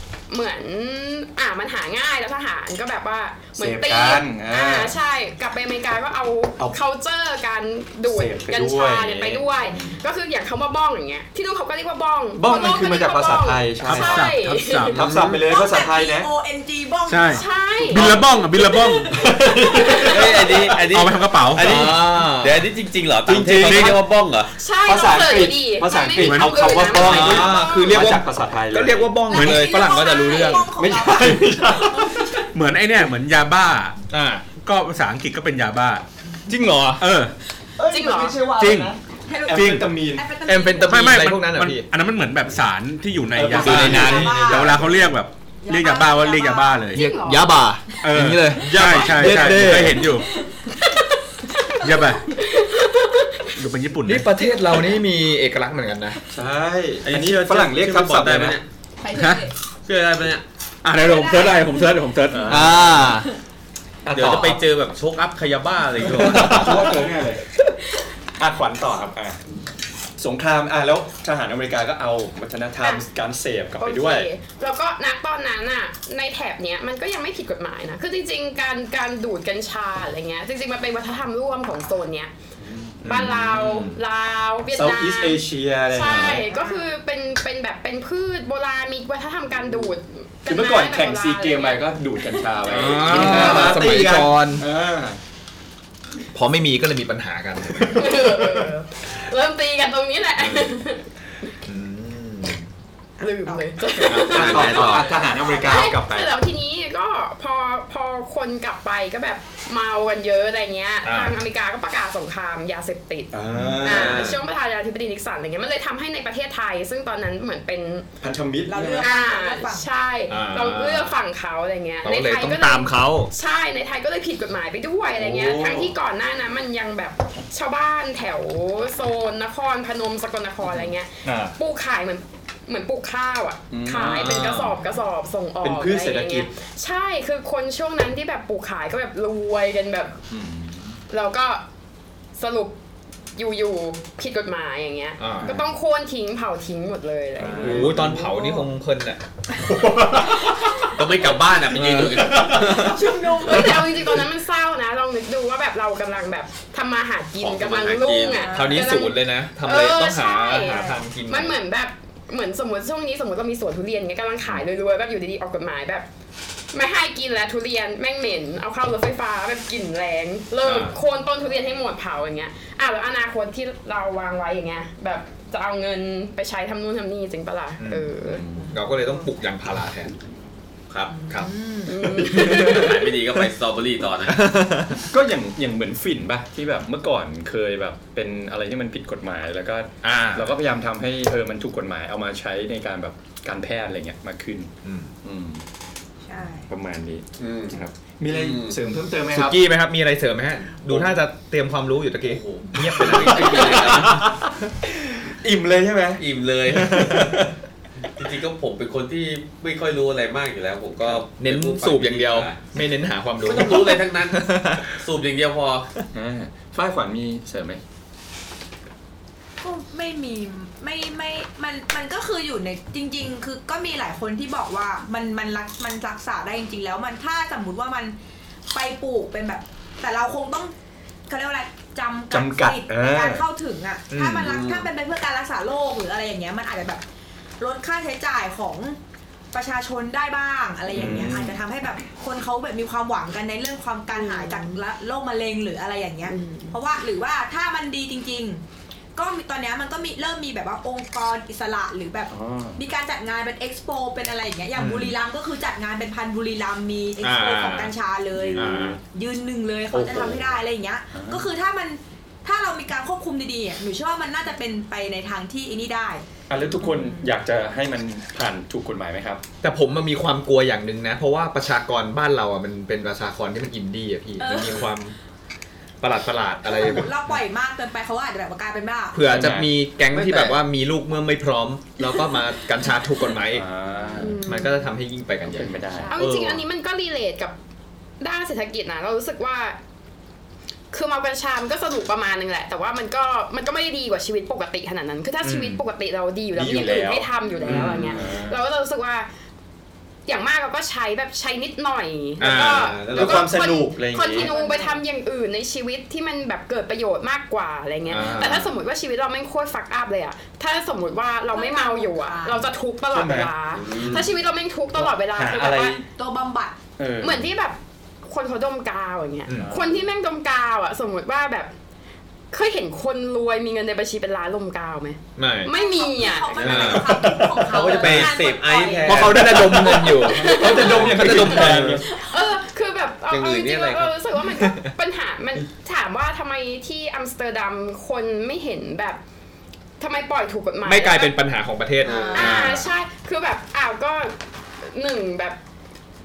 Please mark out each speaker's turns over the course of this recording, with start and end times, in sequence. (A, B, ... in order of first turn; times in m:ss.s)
0:00.3-0:14.9 A
0:03.6-0:05.0 B
0:08.0-0:10.0 B
0:12.4-0:14.3 B
0:13.8-0:15.1 C
0:14.9-0:16.3 B
0:15.0-0:15.4 D
0:15.2-0:17.4 E
0:17.1-0:19.3 C
0:17.3-0:18.2 A
0:18.0-0:18.2 B
0:18.6-0:18.9 E
0:18.7-0:20.3 A
0:19.1-0:20.6 B
0:19.6-0:20.0 E
0:19.8-0:24.5 D
0:20.7-0:21.9 C
0:21.6-0:22.6 F
0:23.3-0:24.0 B
0:23.6-0:24.0 C
0:24.5-0:28.0 A
0:24.8-0:29.2 B
0:26.2-0:27.3 C
0:27.0-0:30.7 F
0:29.3-0:32.5 E
0:29.3-0:29.9 C
0:30.8-0:32.4 B
0:32.5-0:34.0 C
0:34.1-0:34.4 F
0:34.6-0:36.0 C
0:36.5-0:37.1 F
0:37.0-0:37.3 C
0:37.8-0:40.3 B
0:37.9-0:38.4 A
0:38.4-0:39.0 C
0:39.3-0:41.2 E
0:39.5-0:39.9 C
0:40.4-0:41.9 F
0:40.8-0:47.0 C
0:43.3-0:45.1 B
0:43.6-0:44.6 F
0:43.6-0:44.9 E
0:45.6-0:46.8 E
0:46.9-0:47.6 A
0:46.9-0:50.1 F
0:48.0-0:50.3 C
0:48.6-0:49.8 B
0:50.0-0:50.6 E
0:50.8-0:53.5 A
0:51.8-0:52.4 C
0:53.6-0:54.3 C
0:54.0-0:56.2 F
0:56.3-0:58.6 B
0:57.0-0:58.6 D
0:59.0-0:59.5 E
0:59.1-0:59.5 C
0:59.8-1:00.4 D
1:00.8-1:02.9 C
1:01.0-1:02.0 E
1:02.3-1:03.0 B
1:02.5-1:03.3 F
1:04.0-1:04.6 B
1:04.1-1:06.9 D
1:06.1-1:07.4 B
1:06.4-1:07.0 C
1:08.4-1:09.4 B
1:10.2-1:14.3 B
1:13.8-1:22.3 A
1:22.6-1:24.0 B
1:23.0-1:23.8 F
1:23.0-1:32.5 A
1:24.7-1:26.4 B
1:26.3-1:26.8 E
1:30.5-1:35.2 B
1:32.7-1:34.6 F
1:36.3-1:38.7 F
1:37.8-1:41.0 A
1:40.4-1:40.7 F
1:41.7-1:42.7 F
1:43.2-1:58.1 A
1:43.2-1:43.8 E
1:44.1-1:45.0 F
1:44.1-1:46.3 B
1:44.1-1:45.1 D
1:51.0-1:51.4 F
1:53.3-1:54.4 B
1:53.5-1:54.2 F
1:53.8-1:54.4 D
1:58.2-1:59.1 B
1:58.7-1:59.9 E
1:59.0-2:20.2 A
2:00.3-2:01.2 F
2:02.0-2:03.3 F
2:05.1-2:05.9 B
2:11.2-2:11.6 F
2:13.7-2:14.6 B
2:14.1-2:14.8 F
2:15.6-2:16.5 B
2:20.3-2:21.0 B
2:21.1-2:21.6 A
2:22.4-2:22.8 A
2:23.4-2:28.1 A
2:25.2-2:25.6 F
2:25.4-2:25.6 B
2:27.4-2:28.3 B
2:27.5-2:29.2 F
2:28.1-2:28.6 E
2:29.7-2:30.4 F
2:29.8-2:30.3 B
2:30.8-2:33.0 D
2:31.7-2:33.5 F
2:32.6-2:33.9 E
2:33.4-2:46.1 A
2:37.4-2:38.5 D
2:38.1-2:39.0 E
2:38.5-2:41.6 F
2:40.5-2:41.0 E
2:46.7-2:58.4 A
2:50.6-2:51.0 F
2:57.8-3:00.1 F
2:58.2-2:58.7 B
2:58.5-2:59.3 E
3:01.1-3:02.1 E
3:01.9-3:03.1 A
3:02.1-3:03.0 F
3:02.3-3:04.4 D
3:04.3-3:05.0 F
3:05.0-3:15.6 B
3:10.0-3:10.5 F
3:14.8-3:15.1 F
3:16.2-3:16.7 E
3:16.7-3:19.6 B
3:17.4-3:17.8 D
3:18.3-3:18.8 D
3:19.3-3:24.3 F
3:22.2-3:24.3 D
3:22.8-3:26.2 B
3:26.2-3:27.4 D
3:26.8-3:27.5 B
3:26.8-3:27.3 F
3:28.1-3:32.6 D
3:31.1-3:34.8 F
3:33.4-3:35.9 D
3:36.1-3:37.8 B
3:39.6-3:48.2 E
3:48.7-3:50.7 E
3:51.3-3:57.0 E
3:52.3-3:53.5 B
3:54.1-3:54.6 F
3:54.4-3:54.9 D
3:57.6-3:59.0 E
3:59.5-4:08.6 E
4:00.9-4:01.6 B
4:04.1-4:04.8 A
4:06.3-4:06.8 A
4:09.1-4:26.2 E
4:12.3-4:12.8 B
4:14.8-4:15.2 F
4:17.2-4:18.0 F
4:18.3-4:19.0 B
4:18.6-4:19.0 F
4:19.9-4:20.5 B
4:21.1-4:21.5 B
4:26.5-4:29.4 B
4:26.8-4:27.3 E
4:29.6-4:35.1 F
4:34.4-4:35.0 E
4:36.0-4:37.2 F
4:36.6-4:39.2 E
4:39.1-4:43.6 F
4:39.2-4:39.7 B
4:40.1-4:40.6 D
4:42.0-4:42.5 E
4:43.5-4:44.4 B
4:44.2-4:44.9 A
4:44.4-4:45.8 F
4:45.5-4:46.1 B
4:46.0-4:46.3 E
4:46.1-4:47.6 A
4:46.2-4:46.6 D
4:48.2-4:49.8 A
4:50.9-4:59.3 A
4:55.4-4:55.8 F
4:56.6-4:58.6 B
4:57.6-4:58.2 F
5:00.3-5:16.0 A
5:02.4-5:03.0 F
5:02.5-5:03.5 D
5:03.0-5:04.5 B
5:04.4-5:05.0 E
5:08.1-5:08.8 F
5:11.5-5:12.7 E
5:13.1-5:14.1 B
5:13.7-5:14.3 D
5:15.0-5:16.0 B
5:16.1-5:16.8 E
5:17.0-5:17.4 B
5:17.2-5:21.7 A
5:19.5-5:19.7 F
5:19.6-5:19.9 B
5:22.5-5:27.1 A
5:25.4-5:25.7 F
5:25.7-5:29.4 E
5:26.4-5:29.9 D
5:26.6-5:28.4 F
5:29.1-5:32.0 F
5:29.1-5:32.1 B
5:29.8-5:39.2 A
5:30.8-5:32.2 D
5:33.3-5:34.1 D
5:40.0-5:41.3 A
5:40.8-5:42.9 F
5:42.0-5:42.6 E
5:42.0-5:42.7 D
5:42.3-5:45.6 A